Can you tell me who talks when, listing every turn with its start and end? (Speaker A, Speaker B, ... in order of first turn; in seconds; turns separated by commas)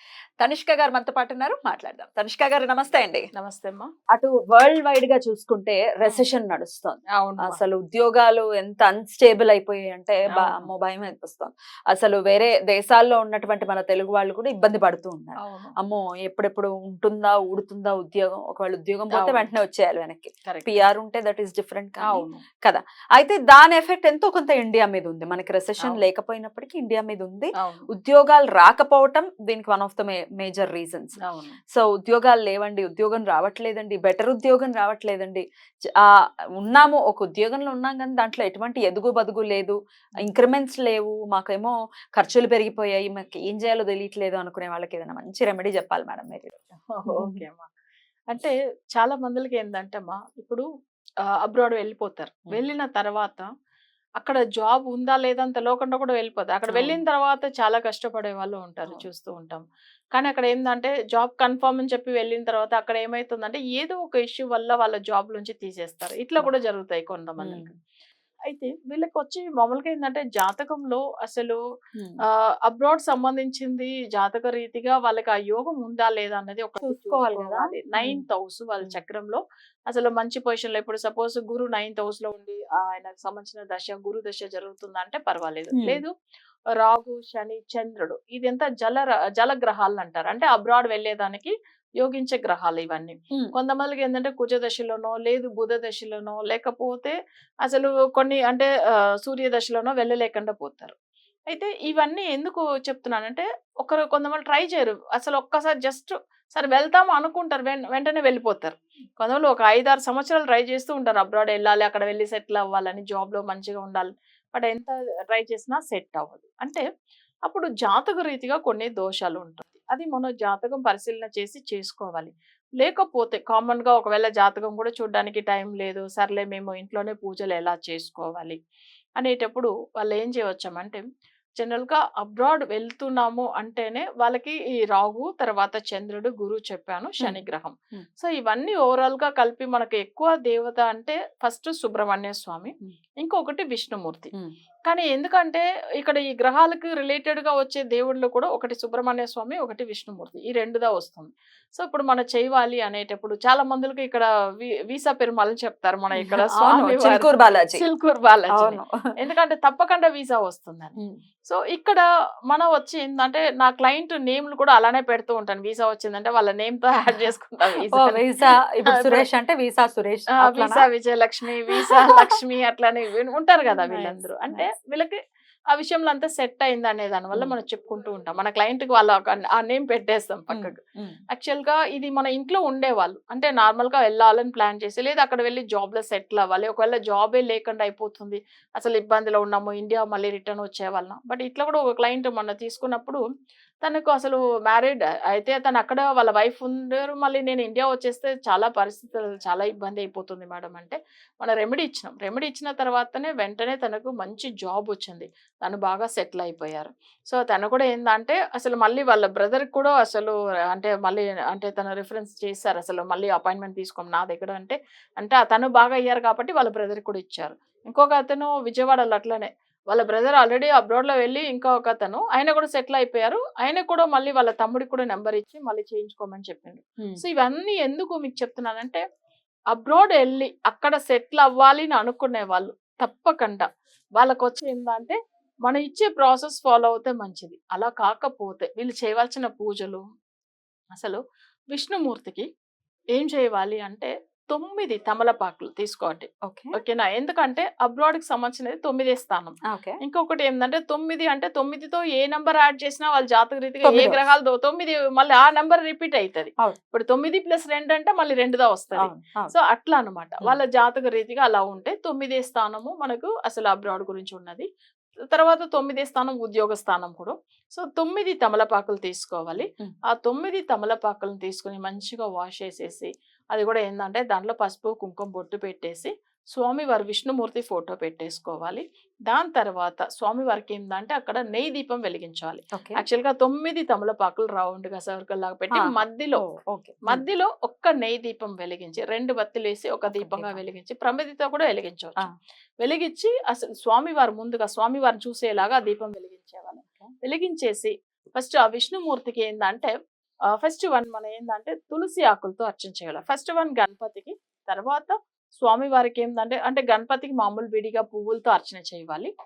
Speaker A: 0.4-3.3, Speaker B: 3.4-3.9, Speaker A: 4.1-31.2, Speaker B: 7.1-7.6, Speaker B: 10.3-10.7, Speaker B: 15.4-15.7, Speaker B: 19.1-19.5, Speaker B: 20.5-20.8, Speaker B: 22.1-22.4, Speaker B: 27.6-27.9, Speaker B: 31.2-31.6, Speaker A: 31.7-35.4, Speaker A: 36.6-47.4, Speaker B: 47.0-47.7, Speaker B: 48.3-50.6, Speaker B: 51.4-53.5, Speaker B: 54.2-59.6, Speaker A: 56.7-57.0, Speaker B: 60.1-67.7, Speaker A: 67.4-67.7, Speaker B: 68.5-71.6, Speaker A: 72.0-72.2, Speaker B: 72.7-86.1, Speaker A: 76.8-78.2, Speaker A: 85.7-86.0, Speaker B: 86.8-100.9, Speaker B: 101.5-116.8, Speaker B: 117.5-128.6, Speaker B: 129.2-131.0, Speaker B: 131.6-144.3, Speaker B: 144.9-160.9, Speaker A: 156.2-157.8, Speaker A: 158.5-158.9, Speaker B: 161.5-168.2, Speaker A: 167.9-170.8, Speaker B: 168.9-169.2, Speaker B: 170.3-175.2, Speaker A: 171.7-172.2, Speaker A: 173.7-174.7, Speaker B: 175.7-180.8, Speaker A: 180.5-181.2, Speaker B: 181.3-193.2, Speaker B: 193.8-229.0, Speaker B: 229.7-240.0, Speaker B: 241.7-242.5, Speaker B: 243.2-264.7, Speaker A: 246.5-246.8, Speaker A: 249.7-250.0, Speaker A: 253.8-254.2, Speaker A: 259.0-259.5, Speaker B: 265.3-286.4, Speaker A: 282.8-283.0, Speaker A: 285.8-287.2, Speaker B: 287.1-292.3, Speaker A: 290.1-290.6, Speaker B: 292.8-299.9, Speaker B: 300.5-309.3